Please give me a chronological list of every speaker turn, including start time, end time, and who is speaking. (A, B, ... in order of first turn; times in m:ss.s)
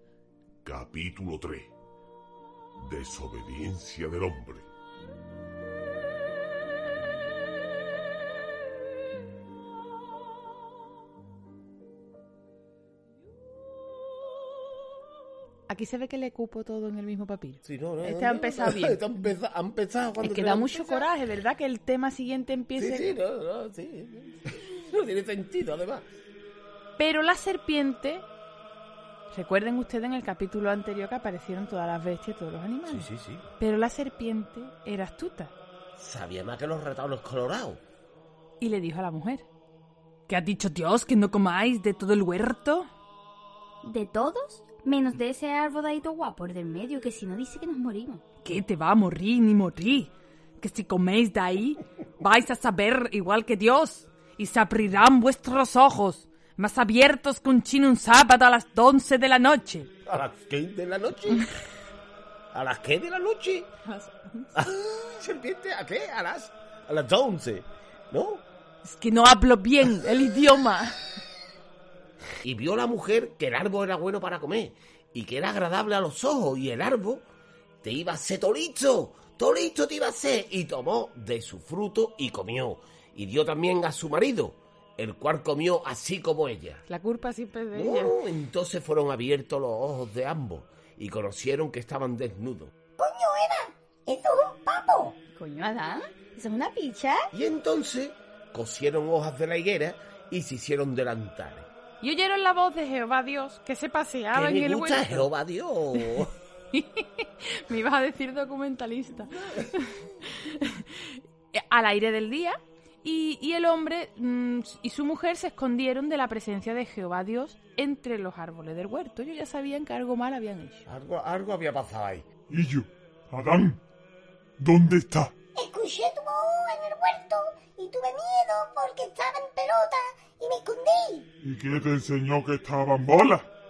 0:00.6-0:01.7 A
0:02.8-0:04.6 A
0:15.7-0:19.0 B
0:17.6-0:21.1 A
0:20.2-0:23.1 B
0:22.8-0:26.1 A
0:27.0-0:28.2 B
0:29.3-0:35.5 B
0:32.9-0:33.5 A
0:35.9-0:37.8 A
0:38.6-0:39.5 B
0:40.3-0:42.9 B
0:43.8-0:48.2 C
0:48.4-0:59.9 B
1:00.0-1:01.5 A
1:02.5-1:03.7 A
1:03.8-1:04.6 B
1:04.5-1:08.4 A
1:08.8-1:11.0 B
1:12.4-1:17.3 A
1:17.8-1:26.8 A
1:26.9-1:28.2 B
1:27.7-1:32.7 A
1:33.0-1:35.2 D
1:35.4-1:36.0 B
1:36.1-1:37.2 C
1:36.6-1:37.1 B
1:37.3-1:41.7 A
1:42.0-1:45.2 B
1:44.3-1:46.3 A
1:46.0-2:00.8 B
2:00.9-2:02.2 A
2:02.5-2:03.8 E
2:04.6-2:05.3 E
2:05.6-2:11.3 D
2:11.4-2:13.5 E